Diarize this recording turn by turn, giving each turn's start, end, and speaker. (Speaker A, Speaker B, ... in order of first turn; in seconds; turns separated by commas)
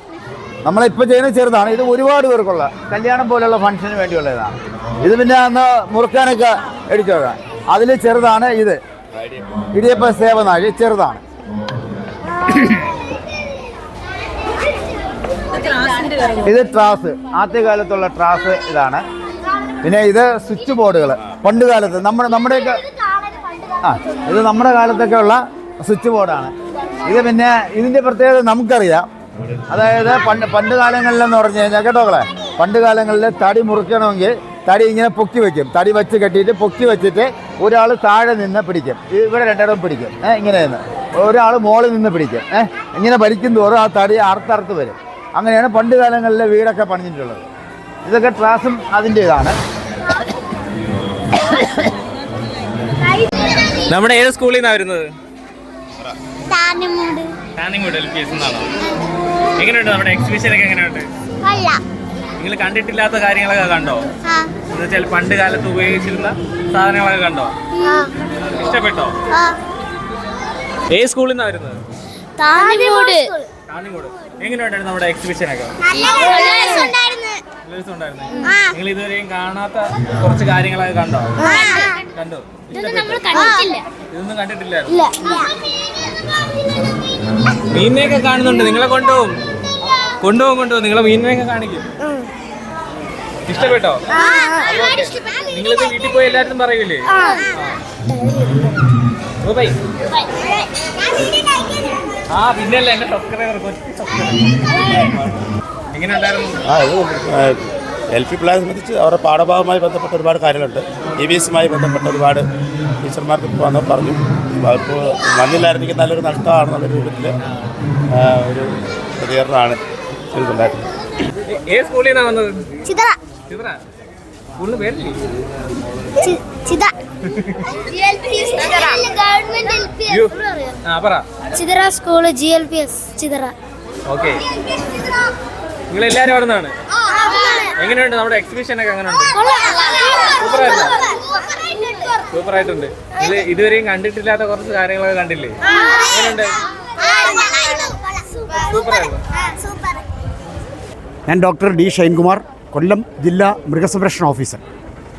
Speaker A: 0.7-8.8, Speaker A: 9.7-11.2, Speaker A: 16.4-19.0, Speaker A: 19.8-22.8, Speaker A: 23.8-26.5, Speaker A: 27.1-29.1, Speaker A: 29.7-47.5, Speaker A: 48.0-49.6, Speaker B: 53.9-55.1, Speaker C: 56.5-57.3, Speaker B: 57.6-58.7, Speaker B: 59.6-61.1, Speaker C: 61.4-61.8, Speaker B: 62.4-64.1, Speaker B: 64.7-67.5, Speaker C: 67.8-68.1, Speaker B: 68.4-69.2, Speaker B: 70.9-71.8, Speaker C: 72.4-73.5, Speaker B: 73.7-75.8, Speaker C: 75.9-77.4, Speaker B: 77.7-83.4, Speaker C: 78.4-78.7, Speaker C: 81.4-82.0, Speaker C: 82.7-83.8, Speaker B: 84.1-85.0, Speaker C: 84.9-85.5, Speaker B: 87.7-89.4, Speaker B: 90.2-91.9, Speaker B: 93.5-94.0, Speaker C: 94.1-95.2, Speaker B: 94.6-97.8, Speaker C: 97.1-97.5, Speaker B: 99.4-99.8, Speaker C: 100.1-100.5, Speaker B: 102.3-105.1, Speaker B: 105.9-106.6, Speaker D: 106.7-112.5, Speaker D: 113.0-117.3, Speaker D: 118.1-119.8, Speaker D: 120.3-120.9, Speaker B: 121.5-122.6, Speaker C: 122.9-123.1, Speaker B: 123.5-123.8, Speaker B: 124.6-125.2, Speaker C: 126.2-126.9, Speaker B: 127.3-127.6, Speaker C: 127.9-130.7, Speaker B: 130.1-131.2, Speaker C: 131.5-133.5, Speaker B: 134.1-134.4, Speaker B: 135.9-136.8, Speaker C: 137.2-137.7, Speaker B: 137.8-139.3, Speaker C: 139.3-142.2, Speaker B: 140.4-141.0, Speaker B: 142.3-145.6, Speaker B: 146.1-146.6, Speaker C: 147.0-148.8, Speaker B: 148.5-149.2, Speaker C: 149.4-150.0, Speaker E: 151.3-154.6